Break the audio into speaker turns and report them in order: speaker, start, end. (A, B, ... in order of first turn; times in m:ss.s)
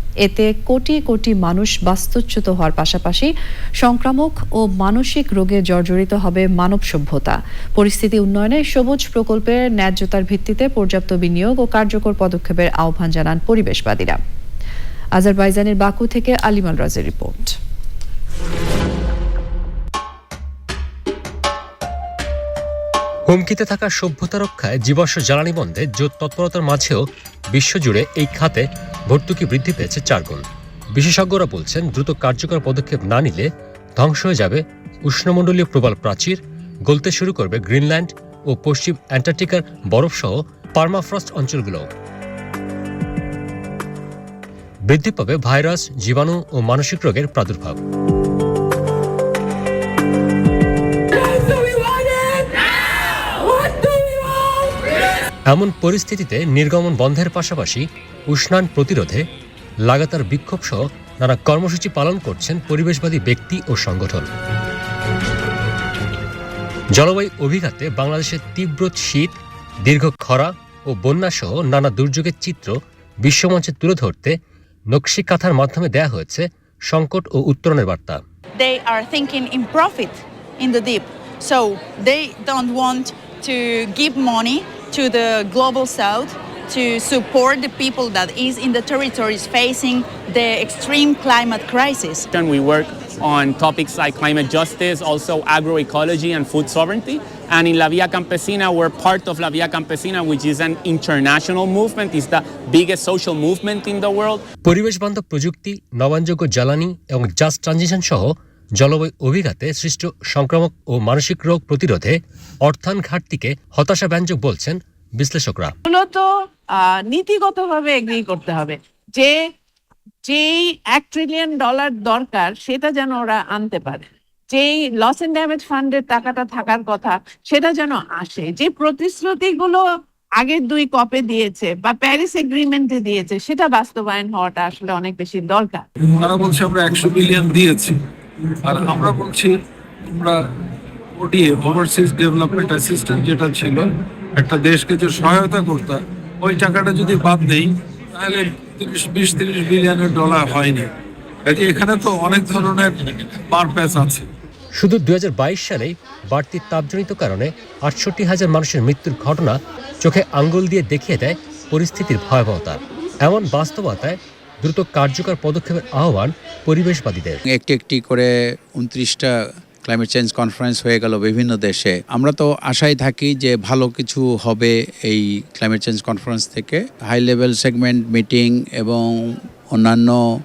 0:00.2-0:03.3 A
0:03.8-0:14.2 A
0:15.2-0:17.5 A
0:23.3-0:27.0 B
0:27.5-0:41.9 B
0:44.8-0:47.8 B
0:51.5-0:52.5 C
0:55.5-0:59.2 B
0:59.8-1:04.3 B
1:06.9-1:14.3 B
1:14.9-1:18.2 B
1:18.6-1:32.2 D
1:32.3-1:44.5 E
1:44.6-1:55.7 B
1:55.8-1:59.3 C
2:00.2-2:09.8 C
2:10.4-2:15.8 C
2:16.1-2:18.0 F
2:18.6-2:19.5 F
2:20.0-2:20.4 F
2:21.2-2:30.9 F
2:31.4-2:34.3 F
2:34.7-2:47.4 B
2:47.5-2:49.3 G
2:49.8-3:00.2 G